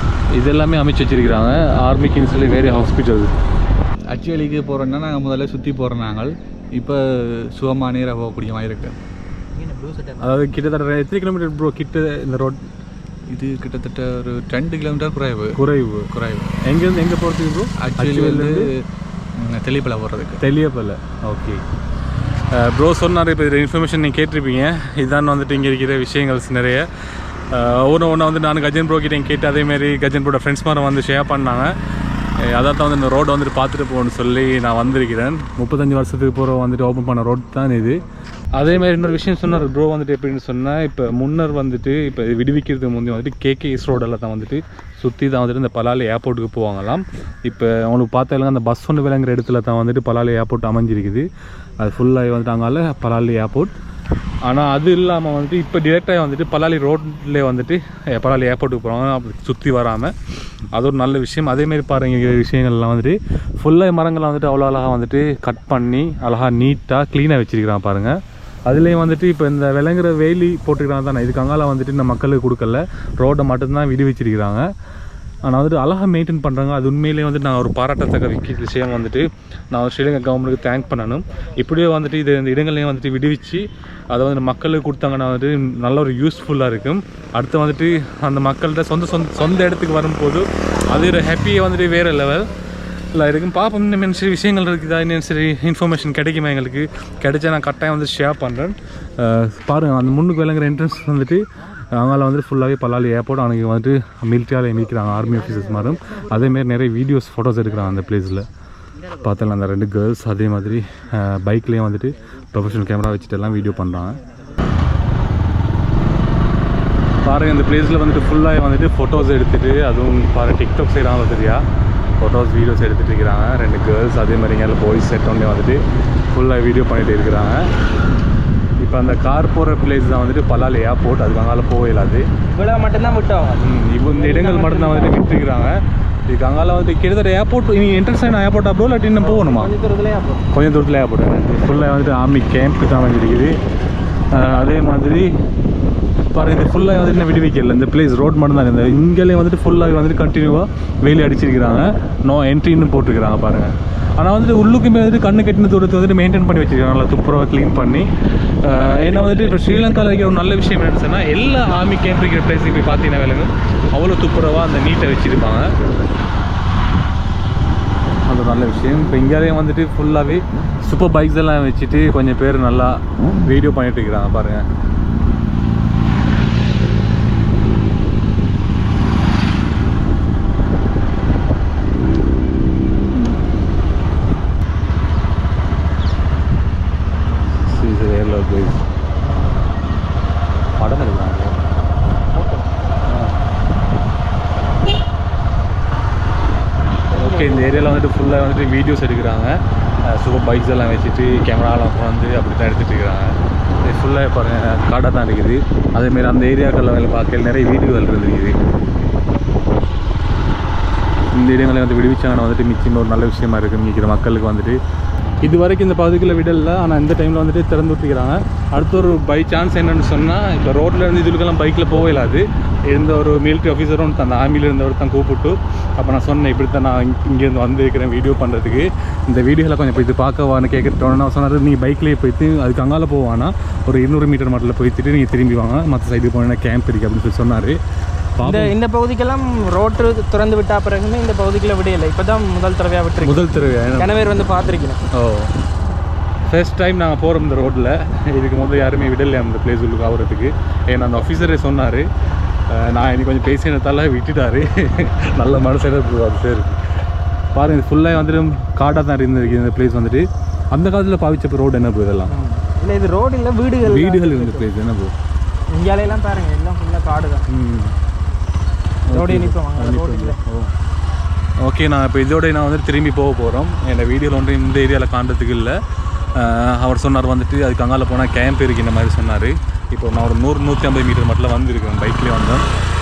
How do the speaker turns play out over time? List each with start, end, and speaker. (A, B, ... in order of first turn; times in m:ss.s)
0:00.3-0:03.3 A
0:04.1-0:09.0 B
0:09.6-0:10.2 B
0:10.2-0:12.6 A
0:13.3-0:15.6 B
0:15.6-0:16.1 A
0:16.1-0:16.5 B
0:16.6-0:18.7 A
0:17.8-0:18.6 B
0:19.4-0:20.4 B
0:20.4-0:21.6 A
0:22.5-0:26.9 A
0:27.5-0:31.7 A
0:32.4-0:38.0 A
0:38.6-0:51.3 A
0:51.8-0:53.7 A
0:54.4-1:00.1 A
1:00.7-1:08.2 A
1:08.7-1:14.7 A
1:15.4-1:32.5 A
1:33.1-1:48.5 A
1:49.2-1:54.2 A
1:57.2-2:01.6 A
2:02.2-2:05.8 A
2:06.3-2:07.7 A
2:08.8-2:12.3 A
2:12.5-2:15.2 C
2:13.6-2:19.7 A
2:19.2-2:20.4 C
2:20.5-2:23.6 A
2:24.3-2:25.3 A
2:26.3-2:38.1 A
2:38.6-2:45.7 A
2:48.3-2:54.7 A
3:07.5-3:08.8 A
3:10.8-3:11.6 A
3:12.3-3:12.7 C
3:13.1-3:13.4 A
3:17.1-3:17.8 C
3:17.1-3:28.6 A
3:31.3-3:34.8 A
3:35.4-3:57.8 A
3:58.4-3:58.7 A
3:58.4-4:05.0 C
4:03.2-4:04.2 A
4:05.1-4:05.5 A
4:06.5-4:12.1 A
4:12.7-4:16.8 A
4:17.5-4:22.3 A
4:22.3-4:24.7 C
4:23.8-4:25.1 A
4:25.7-4:27.5 C
4:27.5-4:28.0 A
4:29.1-4:30.7 A
4:29.1-4:30.4 C
4:31.6-4:35.8 A
4:36.3-4:42.6 A